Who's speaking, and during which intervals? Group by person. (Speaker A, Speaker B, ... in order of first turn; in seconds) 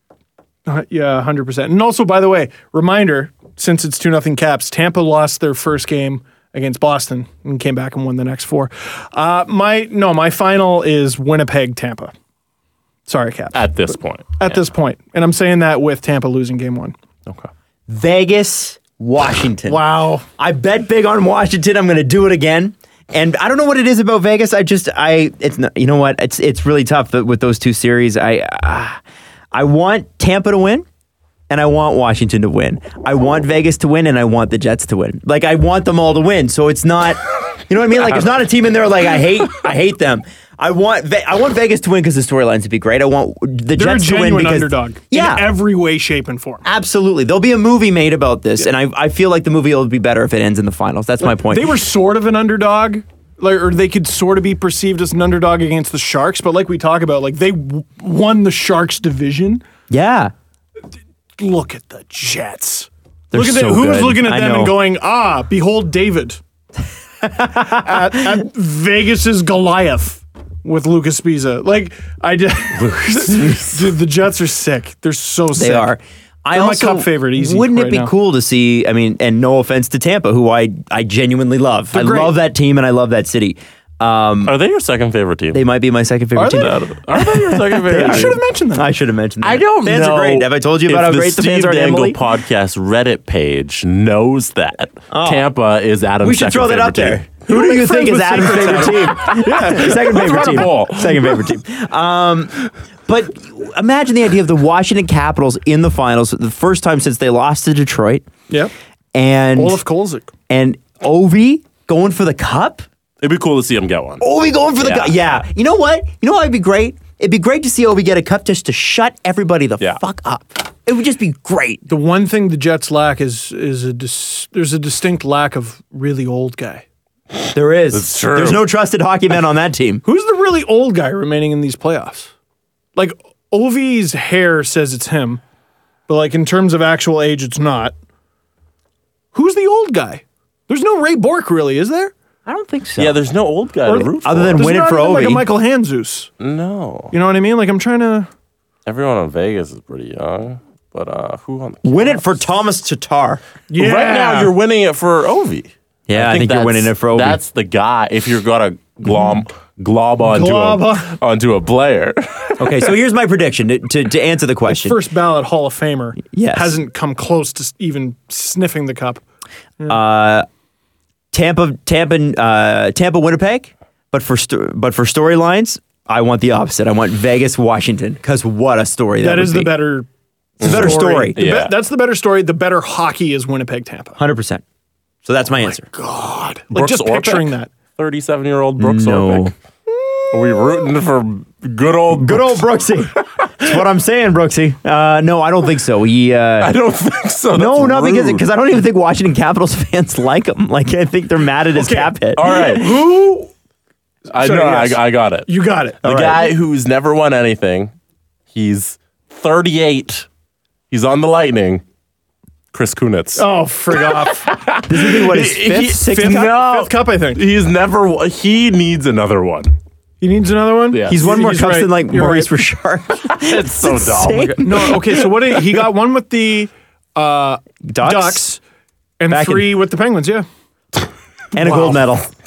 Speaker A: 0.7-12.1, 13.1-16.9, 19.7-20.2, 43.8-46.6, 51.2-59.6, 61.4-66.4, 67.6-75.9, 76.5-78.1, 81.9-82.3, 86.3-86.8, 87.9-88.9, 97.5-101.0, 109.6-110.3, 121.9-126.8, 130.0-132.3, 133.0-135.4, 136.1-137.9, 139.3-142.1, 143.9-146.3, 147.1-148.3, 153.7-154.5, 160.2-161.2, 164.7-169.2, 179.2-180.1, 180.6-184.2, 185.6-187.7, 189.9-190.7, 201.8-203.5, 204.3-206.1, 213.4-214.5, 216.0-217.4, 220.2-222.5, 224.6-228.6, 229.2-230.5, 231.6-232.0
Speaker B: 13.5-14.6, 72.8-73.8, 84.5-85.6, 86.5-88.4, 89.4-97.3, 100.0-101.2, 113.2-114.2, 114.8-115.2, 127.9-128.6, 143.0-144.7, 146.4-147.1, 148.9-152.3, 153.8-162.9, 180.6-181.8, 186.7-189.5, 190.3-192.6, 196.6-198.4, 202.4-203.0, 204.3-205.5, 206.0-207.9, 208.5-210.3, 210.9-211.8, 212.7-213.4, 214.1-219.7, 220.9-221.2, 223.3-225.1
Speaker C: 17.9-19.8, 20.4-29.0, 29.5-30.9, 31.5-45.5, 46.6-51.7, 59.9-60.3, 63.3-64.8, 67.2-68.4, 75.5-84.5, 85.5-92.2, 95.1-95.5, 96.2-108.3, 109.1-109.8, 110.5-112.9, 114.2-121.8, 127.5-130.0, 142.5-143.2, 144.2-145.4, 151.8-153.4, 156.1-157.4, 162.6-165.0, 166.3-166.8, 169.9-170.5, 171.3-179.7, 180.6-181.4, 184.2-184.6, 185.2-185.9, 188.8-189.5, 192.1-196.7, 197.5-202.4, 206.1-206.4, 214.9-216.6, 221.1-225.0, 227.9-228.4, 229.3-229.7, 231.5-232.3